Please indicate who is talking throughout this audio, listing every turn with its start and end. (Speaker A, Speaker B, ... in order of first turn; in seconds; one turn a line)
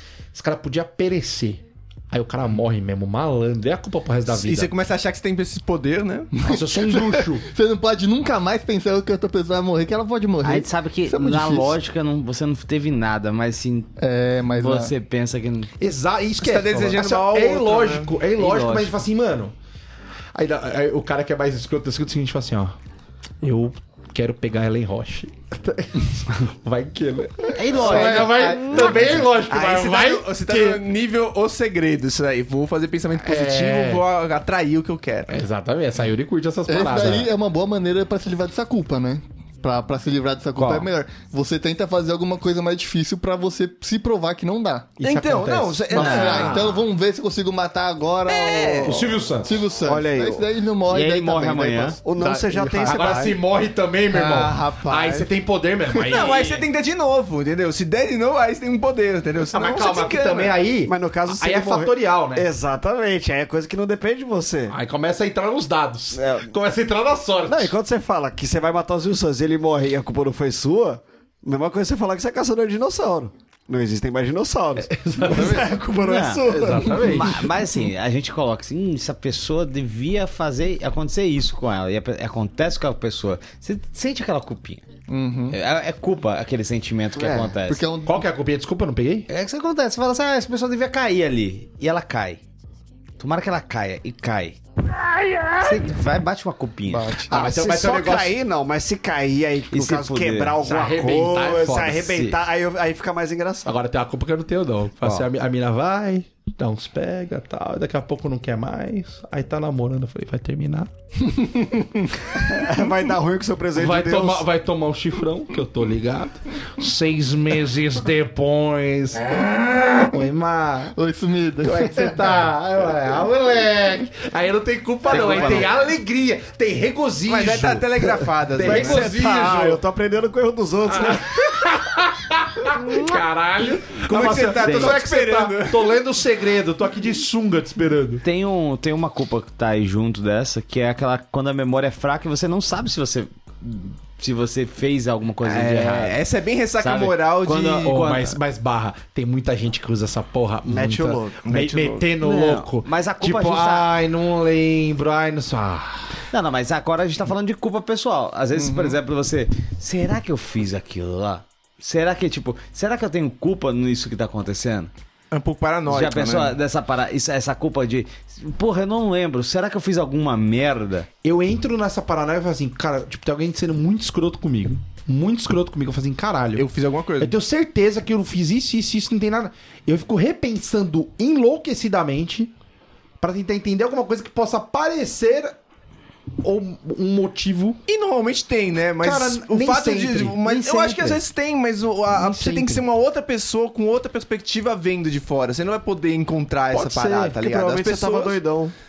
Speaker A: 0.3-4.7
Speaker B: 4.3-6.3
Speaker C: 6.4-11.8
Speaker A: 6.4-7.5
Speaker D: 10.4-13.9
Speaker C: 14.0-14.9
Speaker D: 14.5-15.7
Speaker A: 15.8-19.5
Speaker B: 16.4-18.1
Speaker D: 18.4-19.0
Speaker A: 20.4-22.8
Speaker A: 23.4-30.8
Speaker D: 27.6-29.3
Speaker B: 28.6-35.3
Speaker A: 33.2-34.0
Speaker A: 35.3-37.3
Speaker C: 36.7-44.9
Speaker D: 40.6-40.9
Speaker A: 45.0-46.6
Speaker B: 45.0-46.7
Speaker C: 45.9-53.4
Speaker B: 48.3-49.0
Speaker A: 48.9-49.5
Speaker E: 49.8-50.5
Speaker D: 50.9-52.0
Speaker E: 52.0-53.4
Speaker A: 52.9-56.7
Speaker C: 54.1-55.3
Speaker B: 56.1-60.6
Speaker A: 59.5-62.5
Speaker E: 60.9-64.8
Speaker A: 64.7-67.7
Speaker E: 66.2-66.5
Speaker E: 67.5-77.4
Speaker A: 74.8-75.7
Speaker C: 75.3-75.7
Speaker D: 76.0-84.9
Speaker A: 76.5-77.5
Speaker C: 85.1-85.6
Speaker D: 85.5-87.9
Speaker E: 87.2-87.6
Speaker C: 87.7-88.2
Speaker A: 88.0-89.3
Speaker D: 89.3-92.4
Speaker D: 93.2-94.6
Speaker D: 95.6-97.2
Speaker C: 96.9-97.3
Speaker E: 97.3-103.8
Speaker A: 97.3-98.3
Speaker D: 99.7-100.6
Speaker A: 100.6-102.1
Speaker D: 102.0-102.4
Speaker A: 103.7-110.9
Speaker C: 111.4-111.9
Speaker E: 112.3-114.5
Speaker A: 113.8-119.5
Speaker A: 120.0-120.9
Speaker C: 121.0-122.2
Speaker A: 121.6-129.8
Speaker D: 125.1-125.8
Speaker B: 127.3-129.2
Speaker E: 128.6-131.3
Speaker A: 130.9-138.2
Speaker B: 134.1-136.0
Speaker D: 134.7-134.9
Speaker D: 138.2-146.2
Speaker B: 145.4-147.9
Speaker D: 146.8-148.4
Speaker A: 147.8-156.2
Speaker E: 150.7-151.8
Speaker B: 151.4-152.0
Speaker D: 152.2-153.9
Speaker D: 156.3-164.9
Speaker B: 165.3-166.6
Speaker D: 165.9-171.1
Speaker A: 171.2-176.7
Speaker B: 176.6-177.3
Speaker A: 177.2-182.5
Speaker A: 183.2-185.6
Speaker A: 186.4-187.8
Speaker B: 187.9-198.4
Speaker A: 189.0-191.1
Speaker A: 192.1-192.9
Speaker A: 196.7-197.4
Speaker E: 197.2-198.7